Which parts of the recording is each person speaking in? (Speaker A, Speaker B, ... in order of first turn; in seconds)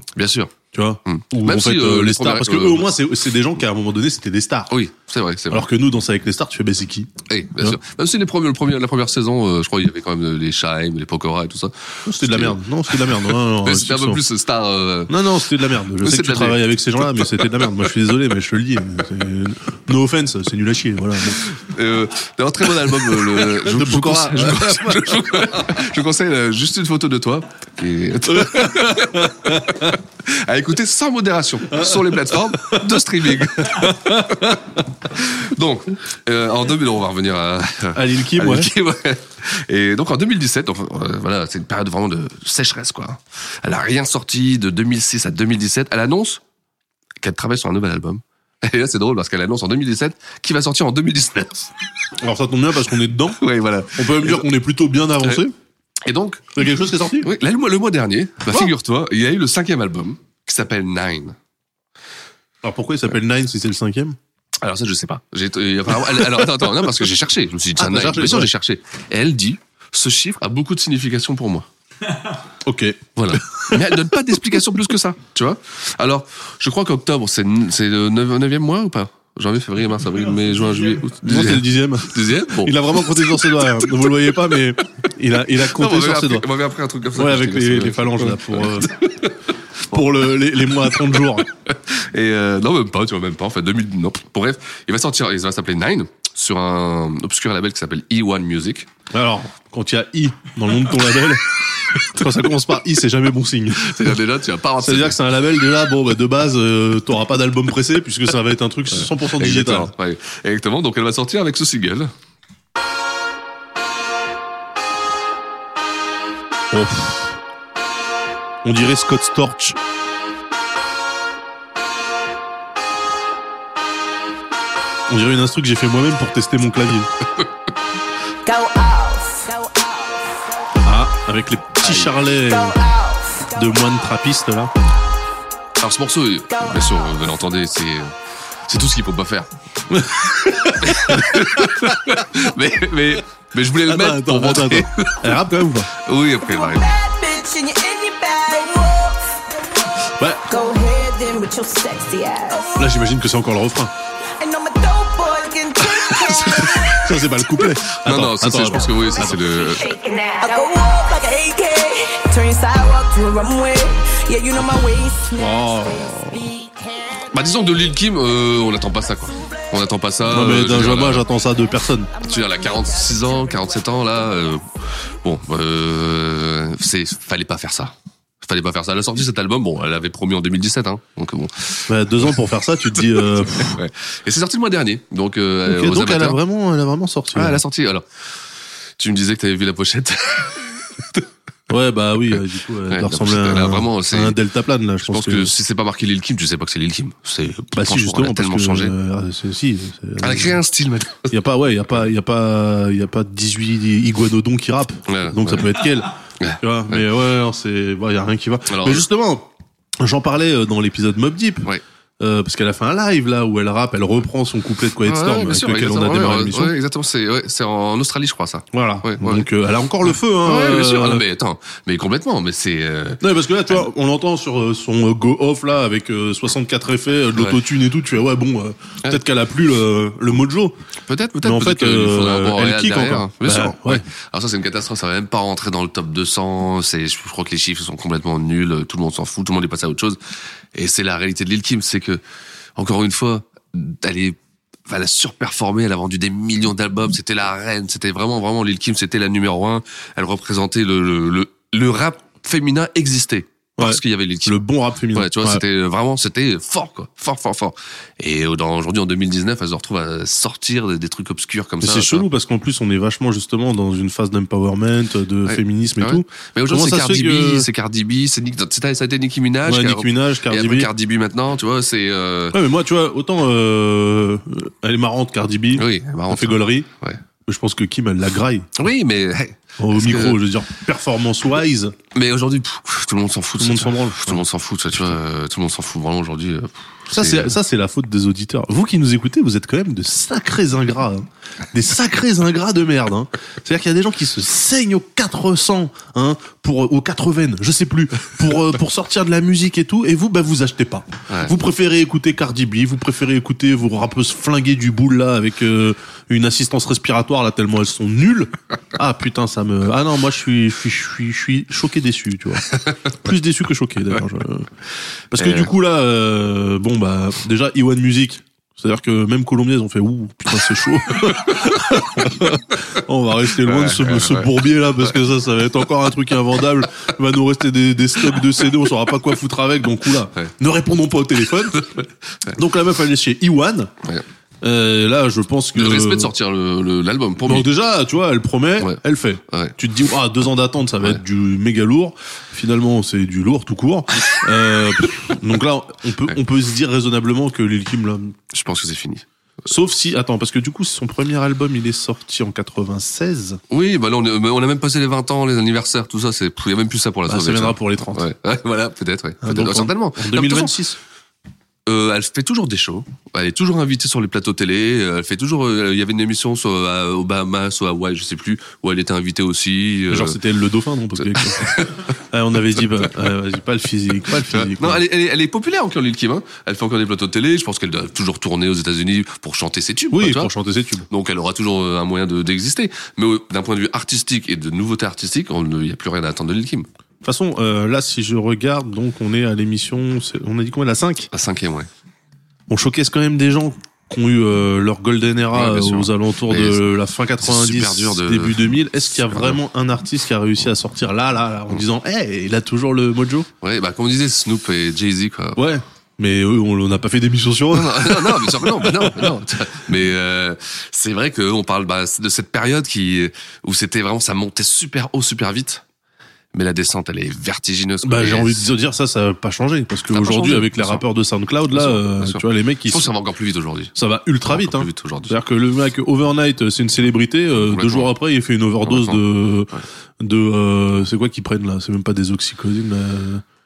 Speaker A: 0.1-2.9, 4.7-5.7, 7.3-15.2, 16.0-17.9, 21.4-46.4, 47.2-51.7, 53.4-54.5, 56.0-56.7, 57.2-61.4, 64.6-71.7, 73.2-84.1, 85.5-90.2, 90.8-98.9, 103.8-105.2, 108.9-112.1, 131.8-132.1, 135.8-139.5, 140.8-145.4, 145.9-146.9, 158.0-159.9, 167.3-171.3, 172.2-182.3, 182.8-186.4, 187.3-188.0, 189.0-190.9, 192.9-194.4, 195.0-198.9, 200.2-201.3, 205.1-205.7, 206.4-207.1, 208.7-209.1, 215.0-219.5, 220.1-223.8, 231.1-240.2, 240.7-242.2, 242.8-262.3, 265.5-272.6, 275.7-277.2, 278.8-280.4, 282.1-287.5, 301.3-301.5, 315.4-315.7, 323.6-325.0, 335.7-337.7, 338.8-339.8, 348.5-349.2, 353.7-360.8, 361.9-370.4, 371.1-372.0, 374.4-380.5, 381.1-386.9, 391.3-391.9, 395.5-396.8, 397.4-399.6, 403.6-405.6, 407.7-415.8, 416.5-418.7, 420.1-421.1, 421.7-425.4, 427.6-428.1, 428.8-429.8
Speaker B: 0.7-4.7, 5.5-7.8, 12.1-14.2, 15.1-21.5, 23.3-25.4, 28.3-30.0, 31.7-32.8, 33.6-34.7, 38.0-38.7, 52.2-53.4, 54.0-55.5, 56.6-57.3, 62.6-64.2, 67.8-68.5, 72.7-73.8, 81.2-86.5, 87.2-88.9, 89.9-91.5, 99.1-104.2, 104.8-109.9, 116.7-117.4, 118.6-119.8, 125.1-127.1, 130.8-132.8, 133.6-134.7, 139.9-142.2, 143.8-145.9, 150.2-150.5, 152.8-153.9, 156.9-159.4, 165.3-166.4, 170.3-172.1, 181.9-183.8, 185.7-187.6, 191.7-195.5, 197.7-200.6, 201.3-209.5, 210.0-211.7, 212.2-216.8, 218.7-221.2, 223.2-230.8, 231.4-234.0, 253.8-255.6, 261.8-267.7, 269.7-270.9, 272.5-276.9, 277.5-278.7, 279.8-281.9, 283.6-284.4, 287.1-314.7, 315.3-331.9, 332.5-333.9, 334.6-336.3, 337.4-348.4, 349.7-353.6, 357.3-358.3, 359.4-361.0, 370.1-371.8, 372.3-375.0, 380.1-381.1, 387.2-391.3, 392.7-403.5, 405.6-409.1, 418.0-423.1, 423.9-433.4
Speaker C: 128.4-130.5, 132.3-133.5, 136.5-136.9, 146.4-149.4, 150.5-152.9, 154.4-157.1, 159.7-165.3, 166.6-167.1, 172.1-173.5